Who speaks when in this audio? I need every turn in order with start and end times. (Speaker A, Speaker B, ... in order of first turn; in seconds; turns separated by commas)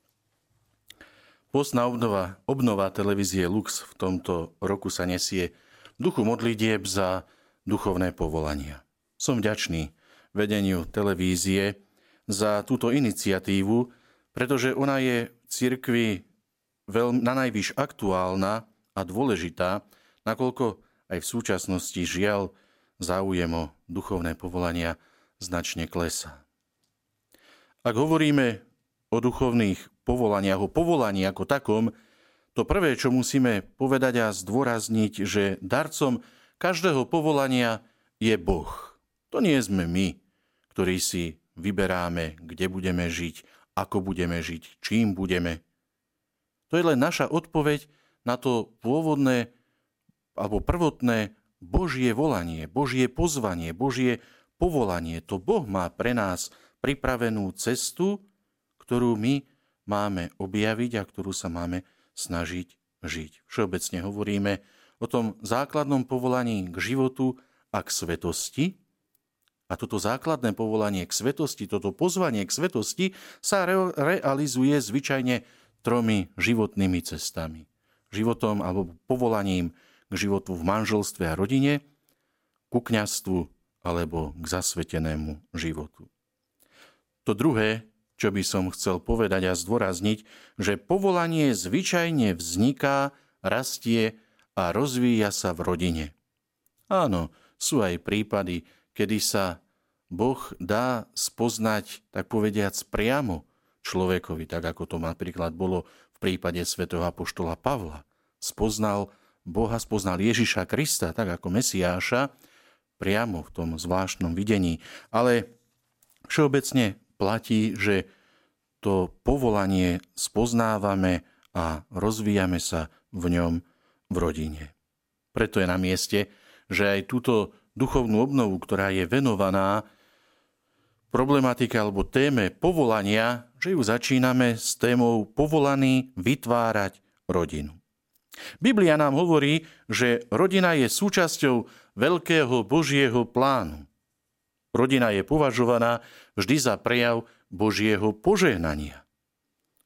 Speaker A: 1.5-16.3, Speaker A: 16.9-26.4, Speaker A: 27.8-31.9, Speaker A: 32.5-45.6, Speaker A: 46.7-49.5, Speaker A: 50.3-58.2, Speaker A: 58.8-68.8, Speaker A: 69.7-81.8, Speaker A: 82.7-86.1, Speaker A: 87.2-96.1, Speaker A: 96.9-112.3, Speaker A: 113.0-115.5, Speaker A: 116.3-118.1, Speaker A: 118.8-124.7, Speaker A: 125.3-129.8, Speaker A: 131.1-137.8, Speaker A: 138.6-143.9, Speaker A: 144.7-149.0